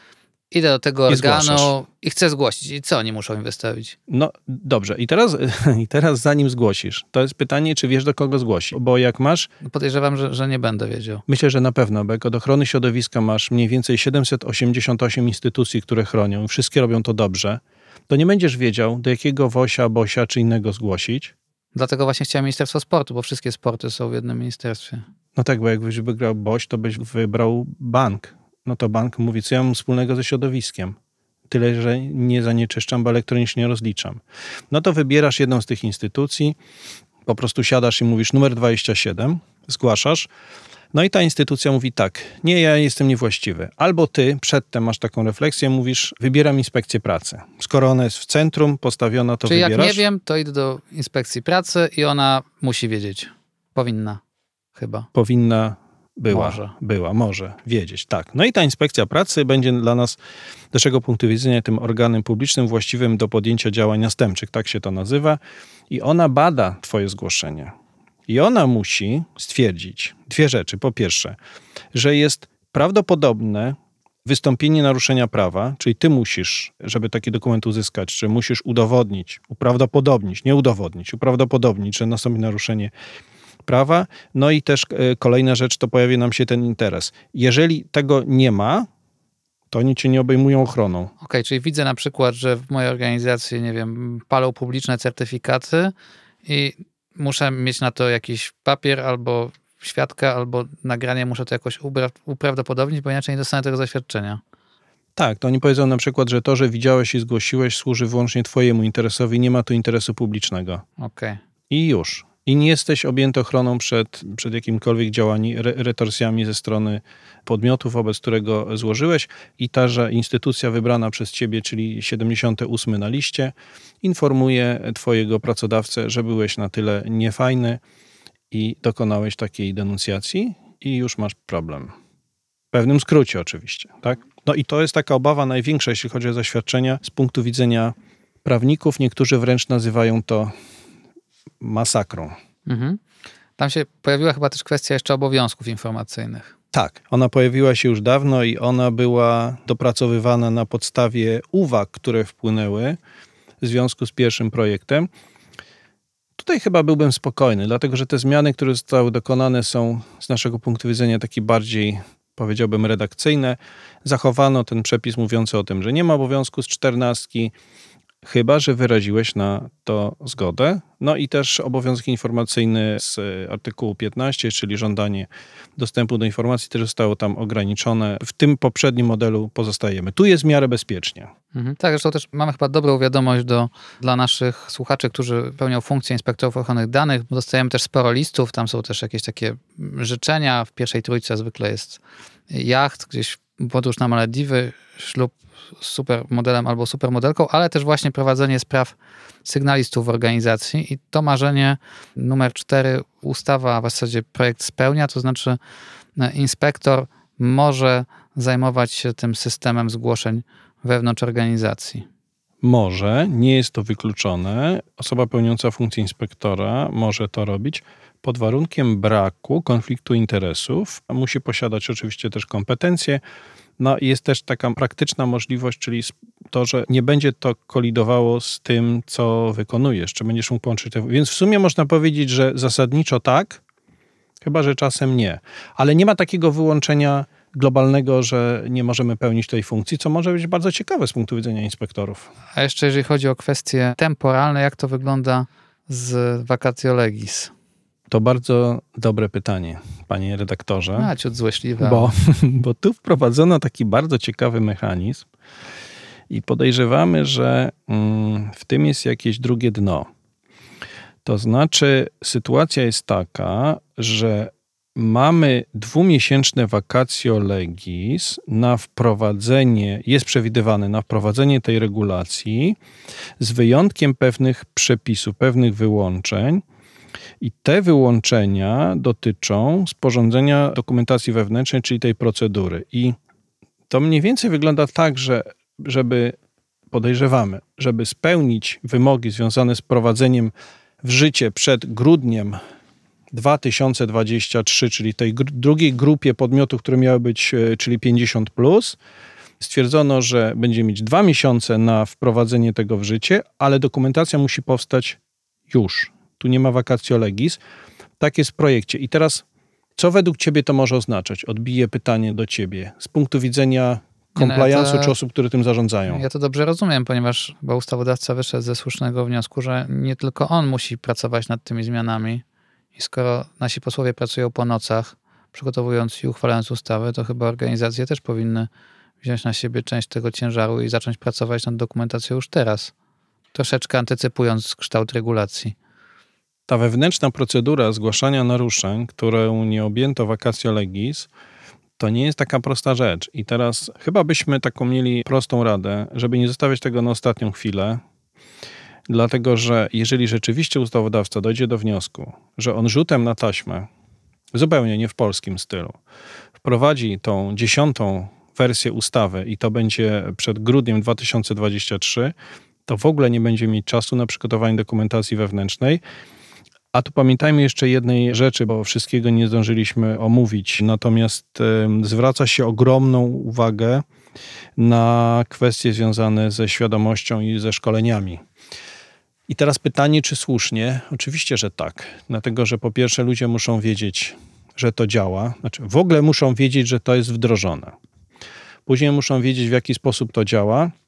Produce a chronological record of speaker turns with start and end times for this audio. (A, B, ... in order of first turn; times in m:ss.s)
0:00.5-0:04.0 A
0:01.1-0:01.7 B
0:04.1-0:09.5 B
0:09.6-0:11.2 A
0:11.3-0:21.3 B
0:21.7-0:25.0 A
0:25.4-0:31.0 B
0:31.5-0:36.6 B
0:37.2-0:40.3 B
0:40.9-0:50.0 B
0:49.4-0:54.2 A
0:54.7-0:55.1 A
0:55.1-1:00.2 B
0:56.3-0:56.7 A
1:00.7-1:07.7 B
1:08.3-1:11.4 B
1:11.9-1:22.9 B
1:23.6-1:28.9 B
1:29.7-1:31.1 B
1:31.2-1:35.9 A
1:36.4-1:44.4 A
1:45.2-1:50.8 B
1:51.0-1:51.4 A
1:51.7-2:07.8 B
2:08.5-2:11.9 B
2:12.7-2:20.5 B
2:21.6-2:22.3 B
2:22.6-2:23.0 A
2:23.6-2:26.5 A
2:26.7-2:33.0 B
2:33.6-2:35.1 B
2:36.4-2:47.5 B
2:48.2-3:01.3 B
3:01.5-3:25.6 A
3:26.2-3:32.0 A
3:32.6-3:43.2 B
3:43.8-3:53.6 B
3:54.4-4:02.3 B
4:02.6-4:07.5 A
4:08.1-4:11.1 B
4:11.0-4:12.1 A
4:11.8-4:15.3 B
4:16.3-4:20.1 B
4:21.2-4:32.8 B
4:33.4-4:36.6 B
4:37.4-4:43.2 B
4:43.9-4:46.3 B
4:46.9-4:52.6 B
4:53.3-4:59.0 B
4:59.6-5:05.2 B
5:05.7-5:07.6 B
5:08.2-5:09.4 B
5:10.0-5:16.2 B
5:14.4-5:15.1 A
5:16.1-5:22.4 A
5:23.0-5:28.7 A
5:29.2-5:32.9 A
5:33.5-5:35.7 A
5:36.7-5:41.3 B
5:42.0-5:48.0 B
5:49.1-5:53.9 B
5:54.5-5:56.0 B
5:56.6-6:02.3 B
6:02.9-6:06.0 B
6:06.9-6:14.0 B
6:14.8-6:18.4 B
6:19.5-6:27.9 B
6:28.8-6:30.9 B